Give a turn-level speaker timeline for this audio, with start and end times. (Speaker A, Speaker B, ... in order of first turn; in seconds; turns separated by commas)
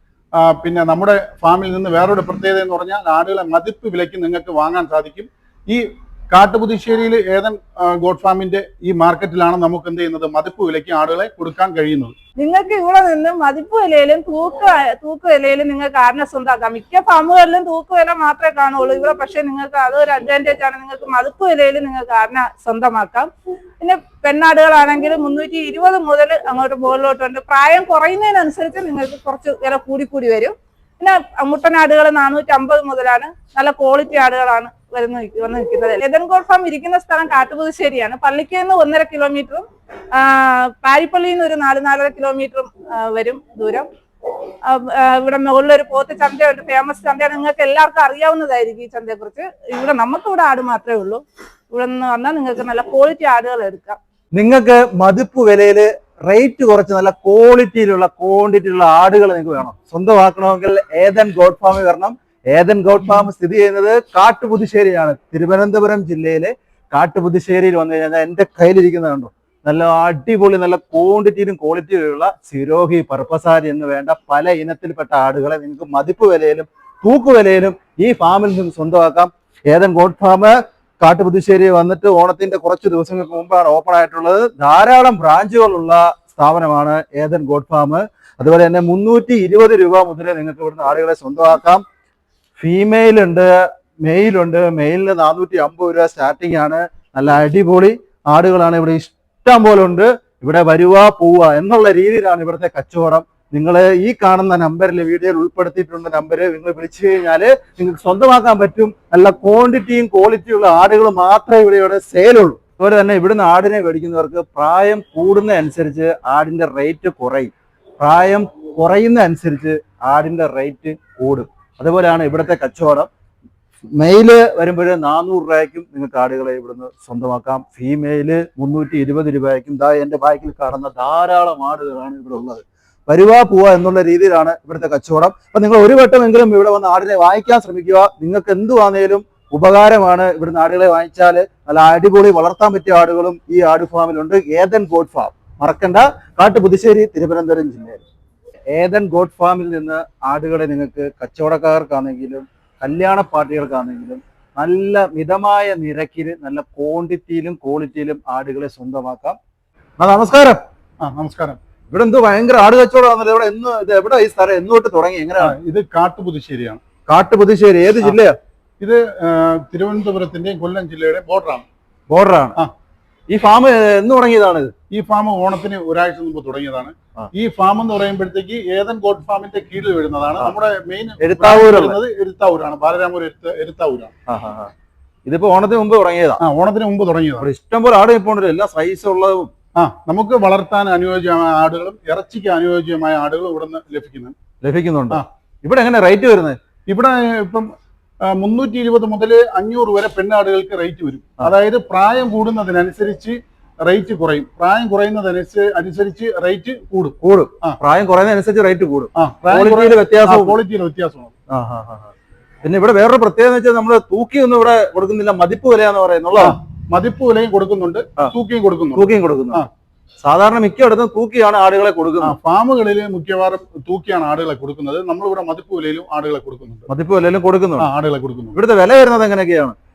Speaker A: 0.3-12.1, Speaker B: 12.4-43.9, Speaker B: 44.6-54.0, Speaker C: 54.3-91.8, Speaker C: 92.6-123.1, Speaker C: 123.9-148.0, Speaker C: 148.7-159.4, Speaker C: 160.0-160.6, Speaker A: 161.0-161.6, Speaker C: 161.9-165.6, Speaker A: 165.4-166.8, Speaker C: 167.1-168.4, Speaker A: 168.8-171.7, Speaker C: 172.1-172.6, Speaker C: 173.3-174.7, Speaker A: 174.9-184.1, Speaker C: 181.2-182.0, Speaker C: 184.3-184.7, Speaker C: 185.2-186.4, Speaker A: 186.4-187.5, Speaker C: 187.4-189.5, Speaker A: 189.8-194.3, Speaker C: 194.6-196.6, Speaker A: 196.9-197.7, Speaker A: 198.2-207.8, Speaker C: 207.2-210.6, Speaker A: 209.2-211.3, Speaker C: 211.5-212.1, Speaker C: 212.6-216.6, Speaker A: 216.4-219.7, Speaker C: 218.9-219.6, Speaker C: 220.2-222.4, Speaker A: 222.2-226.9, Speaker C: 226.9-227.9, Speaker A: 227.8-228.6, Speaker C: 228.5-229.8